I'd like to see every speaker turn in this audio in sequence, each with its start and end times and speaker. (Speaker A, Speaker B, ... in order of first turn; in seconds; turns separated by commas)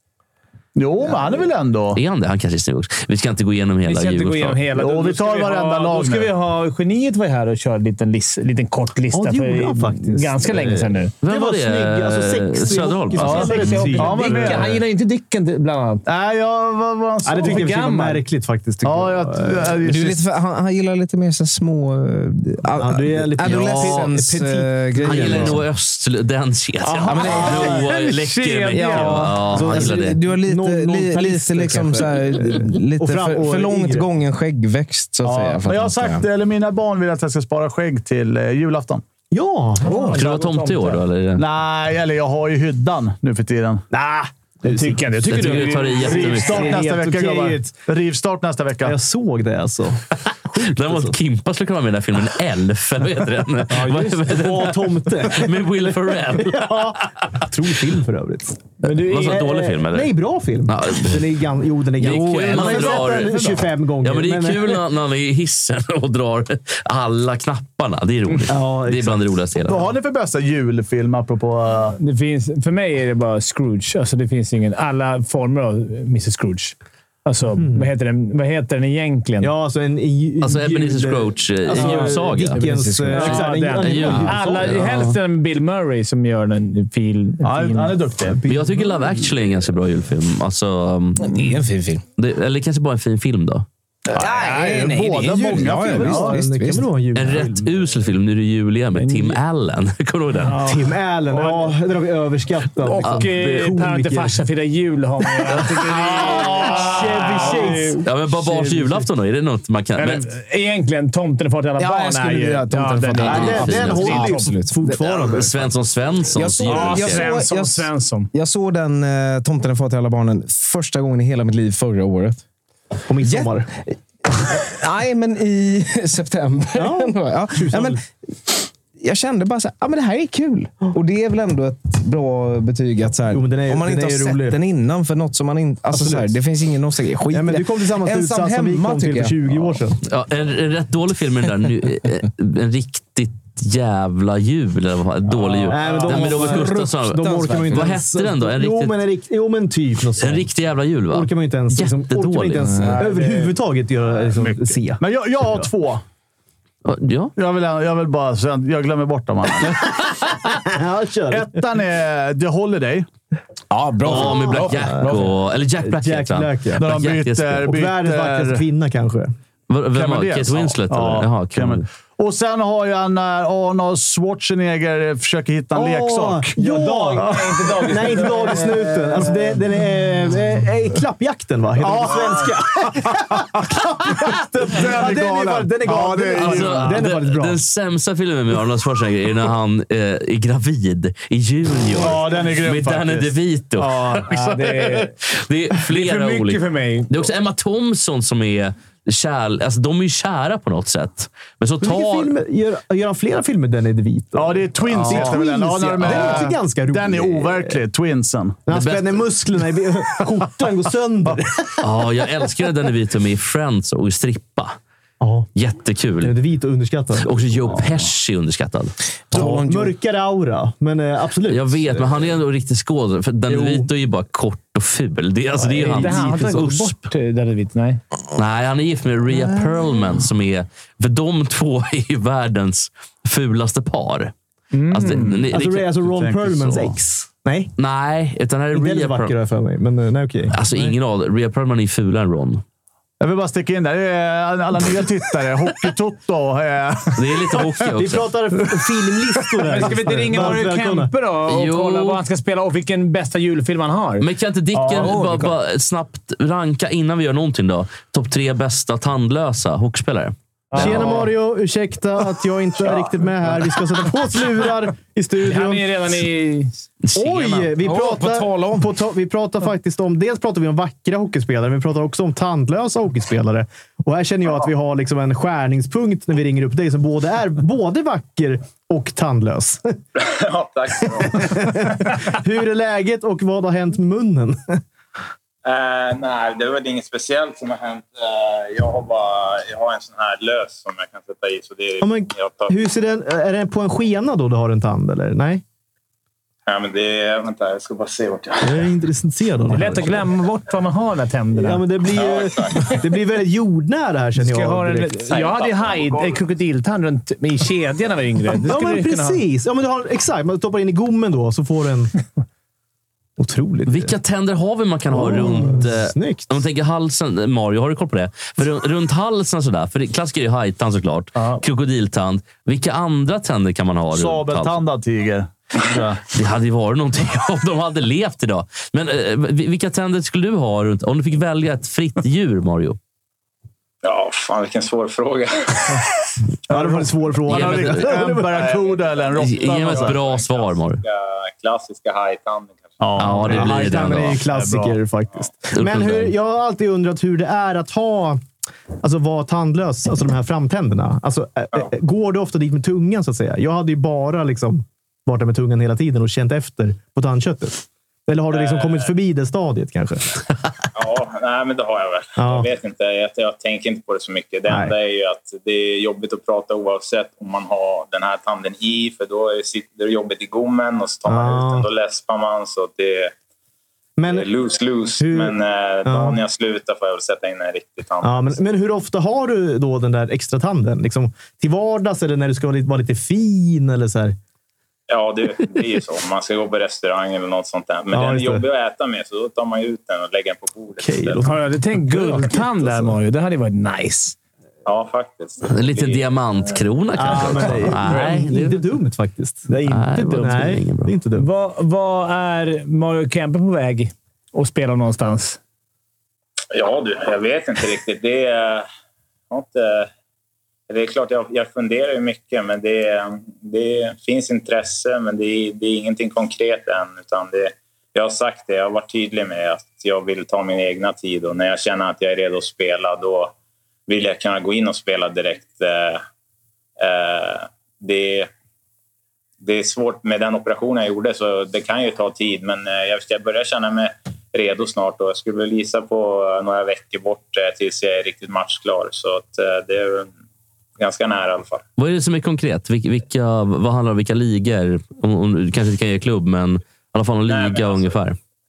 Speaker A: 0.8-2.0, Speaker B: 1.0-1.5, Speaker C: 1.9-4.6, Speaker D: 3.8-11.1, Speaker A: 4.7-6.3, Speaker B: 9.1-14.6, Speaker C: 11.2-13.8, Speaker A: 13.2-14.8, Speaker D: 13.2-16.0, Speaker A: 16.1-17.7, Speaker B: 17.2-19.8, Speaker D: 17.4-18.2, Speaker A: 18.8-20.2, Speaker E: 19.8-25.6, Speaker B: 22.7-25.6, Speaker C: 23.4-24.1, Speaker C: 25.0-30.2, Speaker D: 26.9-29.3, Speaker A: 26.9-27.8, Speaker E: 27.1-27.7, Speaker E: 28.7-36.2, Speaker B: 29.5-34.1, Speaker A: 35.2-39.0, Speaker B: 39.3-40.2, Speaker D: 39.8-41.0, Speaker C: 40.1-41.4, Speaker A: 41.4-43.8, Speaker B: 43.9-47.8, Speaker D: 44.6-46.9, Speaker C: 45.3-46.6, Speaker A: 46.0-49.0, Speaker B: 48.8-51.1, Speaker C: 50.6-57.0, Speaker B: 53.7-58.6, Speaker D: 58.8-59.5, Speaker C: 59.1-60.1, Speaker B: 59.1-64.8, Speaker C: 60.7-61.3, Speaker C: 62.0-69.8, Speaker A: 62.2-63.6, Speaker B: 68.5-69.9, Speaker A: 69.6-72.0, Speaker D: 72.0-76.7, Speaker D: 77.2-79.5, Speaker B: 77.6-77.9, Speaker B: 79.4-84.9, Speaker C: 80.4-85.1, Speaker D: 81.8-82.1, Speaker E: 82.5-83.4, Speaker D: 83.1-88.0, Speaker A: 87.4-88.4, Speaker B: 88.4-89.1, Speaker C: 88.5-91.3, Speaker E: 91.2-92.0, Speaker C: 92.2-93.7, Speaker A: 94.1-96.4, Speaker D: 94.2-95.6, Speaker E: 94.5-96.9, Speaker B: 95.3-97.7, Speaker C: 97.1-100.6, Speaker D: 99.0-99.4, Speaker D: 100.4-101.7, Speaker B: 100.6-104.4, Speaker D: 102.8-108.0, Speaker C: 103.0-103.3, Speaker A: 105.9-107.7, Speaker B: 106.0-109.1, Speaker C: 108.0-110.2, Speaker D: 110.0-114.5, Speaker E: 111.8-115.3, Speaker C: 113.2-114.2, Speaker B: 113.2-115.7, Speaker C: 115.0-117.2, Speaker E: 116.3-122.4, Speaker D: 116.7-118.3, Speaker B: 123.1-123.7, Speaker E: 123.2-123.7, Speaker E: 124.3-139.8, Speaker B: 126.8-128.0, Speaker B: 133.3-134.6, Speaker B: 135.9-136.3, Speaker B: 137.3-140.0, Speaker C: 140.1-149.0, Speaker B: 145.4-150.5, Speaker D: 145.8-146.2, Speaker E: 146.3-148.0, Speaker C: 150.2-152.7, Speaker B: 151.1-155.0, Speaker D: 152.8-153.6, Speaker A: 155.0-156.0, Speaker C: 156.8-157.3, Speaker A: 157.4-160.4, Speaker B: 160.6-161.5, Speaker A: 161.3-163.1, Speaker E: 163.7-164.2, Speaker C: 164.0-167.7, Speaker B: 164.0-165.3, Speaker B: 165.8-166.8, Speaker A: 166.8-168.6, Speaker B: 167.6-169.3, Speaker C: 169.7-171.8, Speaker A: 169.9-176.6, Speaker B: 175.7-187.6, Speaker D: 176.6-179.6, Speaker A: 177.2-178.1, Speaker A: 181.8-187.0, Speaker C: 186.4-202.3, Speaker A: 191.9-194.6, Speaker D: 194.3-195.1, Speaker D: 195.9-197.1, Speaker B: 201.8-207.8, Speaker A: 204.3-208.7, Speaker C: 204.9-205.4, Speaker C: 206.0-206.4, Speaker B: 208.7-211.8, Speaker C: 208.7-209.2, Speaker C: 211.8-214.8, Speaker B: 215.2-215.5, Speaker C: 215.5-216.3, Speaker B: 216.2-217.3, Speaker C: 217.2-218.9, Speaker E: 219.3-219.9, Speaker B: 219.3-222.3, Speaker C: 221.5-227.0, Speaker B: 223.5-223.9, Speaker B: 225.6-226.6, Speaker D: 225.7-228.0, Speaker C: 228.3-234.3, Speaker D: 234.7-235.4, Speaker C: 234.9-235.9, Speaker B: 235.5-237.7, Speaker A: 236.0-236.9, Speaker C: 237.8-239.3, Speaker B: 238.7-240.9, Speaker C: 240.5-242.6, Speaker A: 243.2-247.7, Speaker C: 247.2-248.3, Speaker B: 247.9-251.1, Speaker D: 249.7-254.2, Speaker C: 251.5-252.2, Speaker C: 254.2-261.2, Speaker A: 254.7-255.2, Speaker E: 255.0-255.5, Speaker D: 260.7-261.3, Speaker B: 260.7-266.0, Speaker D: 265.4-266.8, Speaker C: 267.0-267.7, Speaker B: 267.1-279.9, Speaker E: 267.8-268.9, Speaker F: 280.2-281.8, Speaker B: 281.1-284.8, Speaker F: 285.6-292.8, Speaker B: 292.0-295.6, Speaker F: 296.7-298.9, Speaker B: 298.6-300.2, Speaker D: 299.7-301.8, Speaker B: 301.6-305.2, Speaker F: 302.1-303.0, Speaker D: 304.4-309.4, Speaker F: 305.3-306.4, Speaker B: 308.6-312.1, Speaker B: 313.4-314.1, Speaker C: 313.9-324.8, Speaker B: 315.1-316.5, Speaker A: 324.1-326.2, Speaker C: 326.3-333.0, Speaker F: 334.0-336.0, Speaker A: 336.7-340.2, Speaker B: 336.7-338.8, Speaker C: 337.5-338.1, Speaker F: 338.7-343.0, Speaker C: 339.4-341.0, Speaker A: 343.0-345.0, Speaker C: 343.2-344.4, Speaker B: 343.4-348.4, Speaker C: 345.7-346.3, Speaker B: 349.0-360.4, Speaker F: 358.5-359.1, Speaker F: 360.9-373.3, Speaker B: 362.4-362.7, Speaker B: 364.7-364.9, Speaker B: 371.3-371.8, Speaker B: 374.2-374.5, Speaker F: 374.3-378.6, Speaker B: 375.2-376.4, Speaker B: 378.2-384.4, Speaker F: 385.1-391.5, Speaker B: 388.1-388.6, Speaker B: 391.0-391.5, Speaker D: 391.4-394.4, Speaker B: 392.1-393.1, Speaker F: 394.9-396.3, Speaker C: 395.6-398.8, Speaker B: 397.1-401.5, Speaker C: 399.9-401.1, Speaker D: 401.4-405.6, Speaker F: 406.7-408.9, Speaker F: 409.5-410.1, Speaker F: 410.9-423.5, Speaker F: 424.1-426.2, Speaker F: 427.0-428.5, Speaker F: 429.6-440.3, Speaker F: 441.0-441.8, Speaker C: 442.0-448.4, Speaker F: 447.5-448.2